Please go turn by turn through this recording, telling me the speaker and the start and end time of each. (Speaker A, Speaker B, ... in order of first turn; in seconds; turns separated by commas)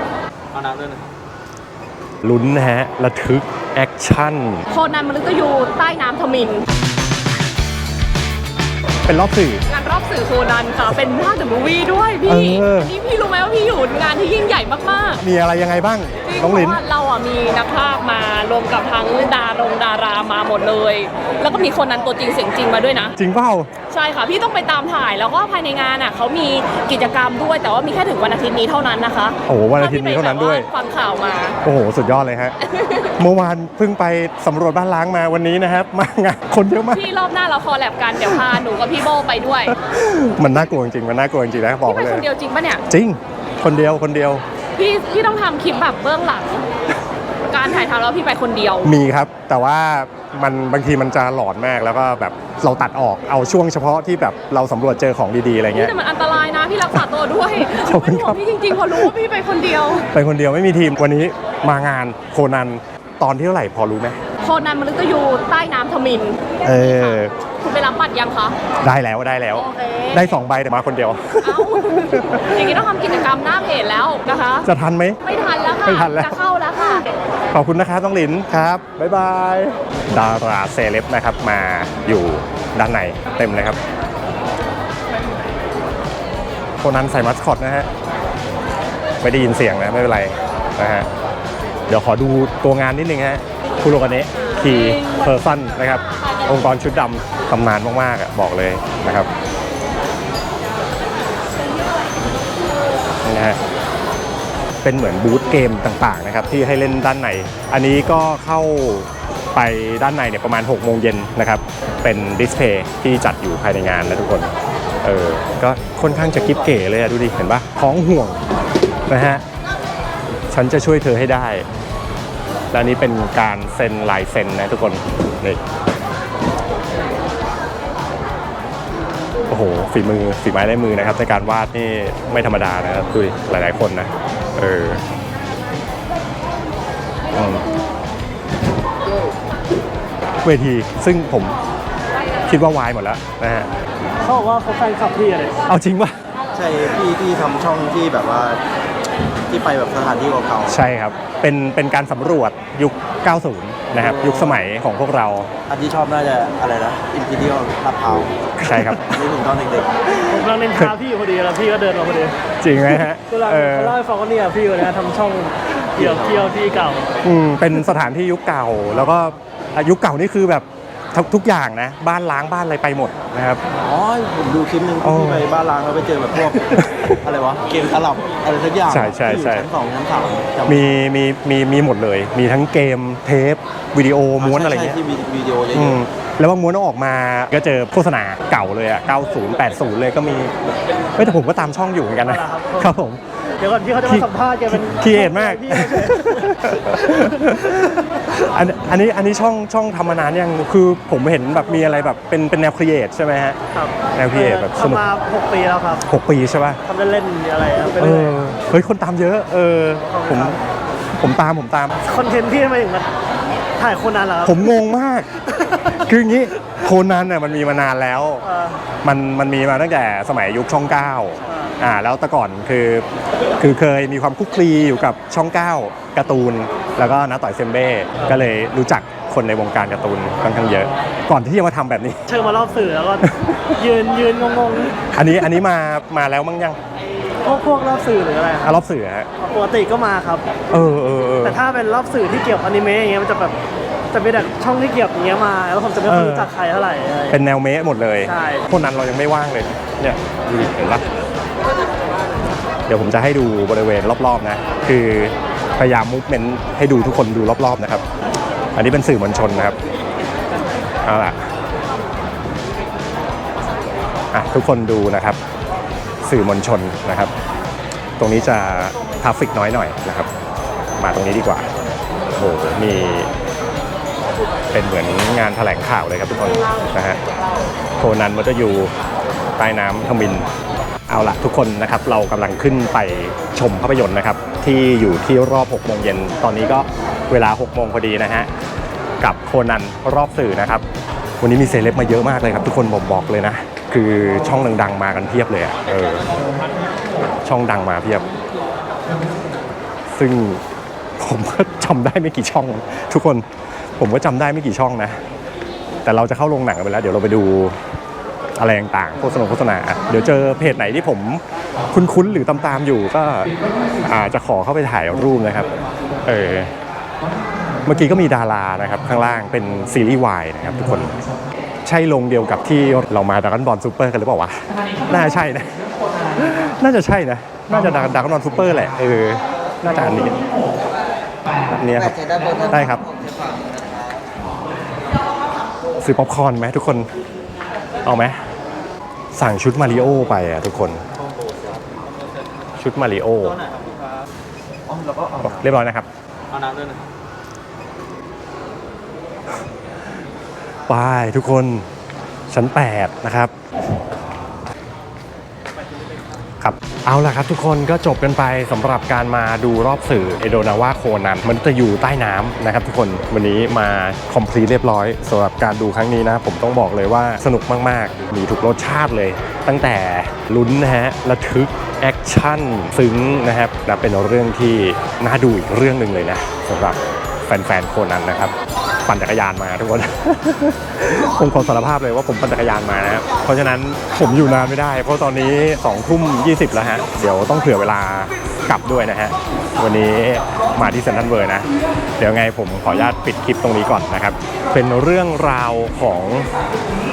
Speaker A: 0.5-1.1, Speaker B: 2.2-4.7, Speaker C: 4.7-6.6, Speaker B: 9.0-9.6, Speaker C: 9.7-15.2, Speaker B: 12.2-12.9, Speaker B: 15.2-16.8, Speaker C: 16.2-23.1, Speaker B: 23.2-23.7, Speaker C: 23.9-31.6, Speaker B: 29.5-30.7, Speaker B: 31.6-32.5, Speaker C: 32.7-33.1, Speaker B: 33.2-37.0, Speaker C: 36.9-39.7, Speaker B: 39.7-42.2, Speaker C: 41.9-42.8, Speaker B: 42.9-44.4, Speaker C: 44.8-46.6, Speaker C: 47.5-48.9, Speaker B: 48.8-55.9, Speaker C: 55.7-60.0, Speaker B: 57.7-59.1, Speaker B: 60.1-64.2, Speaker C: 64.4-68.5, Speaker B: 66.6-67.3, Speaker B: 68.8-72.8, Speaker C: 69.5-70.4, Speaker C: 71.4-74.7, Speaker B: 74.6-75.2, Speaker C: 75.2-77.1, Speaker B: 75.8-83.8, Speaker B: 86.8-87.9, Speaker B: 89.2-91.1, Speaker B: 91.9-99.3, Speaker C: 95.0-95.2, Speaker B: 103.2-103.6, Speaker B: 104.8-118.4, Speaker B: 119.1-119.4, Speaker B: 120.5-121.7, Speaker B: 122.7-125.6, Speaker B: 129.5-135.0, Speaker B: 137.3-137.6, Speaker B: 140.4-141.6, Speaker B: 142.4-143.7, Speaker D: 144.2-145.6, Speaker B: 145.7-146.2, Speaker A: 146.5-148.6, Speaker A: 149.5-150.8, Speaker B: 150.7-155.5, Speaker A: 153.9-154.6, Speaker A: 155.7-159.9, Speaker B: 158.6-159.1, Speaker B: 160.1-160.9, Speaker D: 160.2-167.2, Speaker B: 162.6-164.0, Speaker A: 165.9-166.5, Speaker B: 167.2-173.6, Speaker A: 173.8-180.9, Speaker B: 175.0-175.5, Speaker B: 176.4-177.2, Speaker B: 178.9-179.7, Speaker B: 180.7-185.0, Speaker A: 184.4-186.0, Speaker B: 185.7-190.5, Speaker B: 191.2-193.2, Speaker D: 192.2-192.9, Speaker D: 193.6-196.5, Speaker B: 194.0-203.6, Speaker D: 203.7-206.1, Speaker B: 204.1-205.0, Speaker B: 206.1-206.8, Speaker D: 206.8-208.4, Speaker B: 208.0-210.6, Speaker D: 210.1-210.6, Speaker B: 211.2-212.0, Speaker D: 212.0-213.1, Speaker D: 213.8-214.8, Speaker B: 214.4-215.3, Speaker B: 215.9-218.4, Speaker D: 218.4-218.8, Speaker B: 219.0-223.1, Speaker D: 221.5-221.7, Speaker B: 223.6-232.2, Speaker D: 232.3-235.2, Speaker B: 235.1-236.8, Speaker D: 237.4-238.7, Speaker B: 238.6-239.3, Speaker D: 239.4-240.5, Speaker B: 240.7-241.6, Speaker D: 241.4-243.6, Speaker D: 244.1-247.4, Speaker B: 246.0-246.5, Speaker B: 247.3-251.1, Speaker D: 248.2-248.7, Speaker B: 252.9-258.0, Speaker B: 258.8-259.8, Speaker B: 261.0-261.4, Speaker B: 264.3-265.4, Speaker B: 266.2-267.3, Speaker B: 268.2-270.3, Speaker B: 271.0-271.7, Speaker B: 272.3-273.3, Speaker B: 274.7-277.2, Speaker B: 278.0-278.9, Speaker B: 279.6-280.5, Speaker B: 281.1-288.5, Speaker B: 289.2-290.8, Speaker B: 291.4-296.3, Speaker B: 297.4-298.3, Speaker B: 300.1-300.6, Speaker B: 301.2-303.4, Speaker B: 304.0-305.2, Speaker B: 306.0-307.8, Speaker B: 308.6-313.5, Speaker B: 314.0-315.7, Speaker B: 316.2-316.7, Speaker B: 317.8-321.1, Speaker B: 321.8-330.4, Speaker B: 331.7-333.1, Speaker B: 336.0-337.1, Speaker B: 338.0-338.4, Speaker B: 339.3-341.0, Speaker A: 341.5-342.0, Speaker B: 342.8-343.6, Speaker A: 343.5-344.2, Speaker A: 344.9-345.6, Speaker B: 345.4-346.1, Speaker A: 346.5-347.0, Speaker B: 350.9-351.9, Speaker B: 352.5-353.5, Speaker B: 356.6-378.5, Speaker B: 379.1-391.7, Speaker B: 392.2-396.5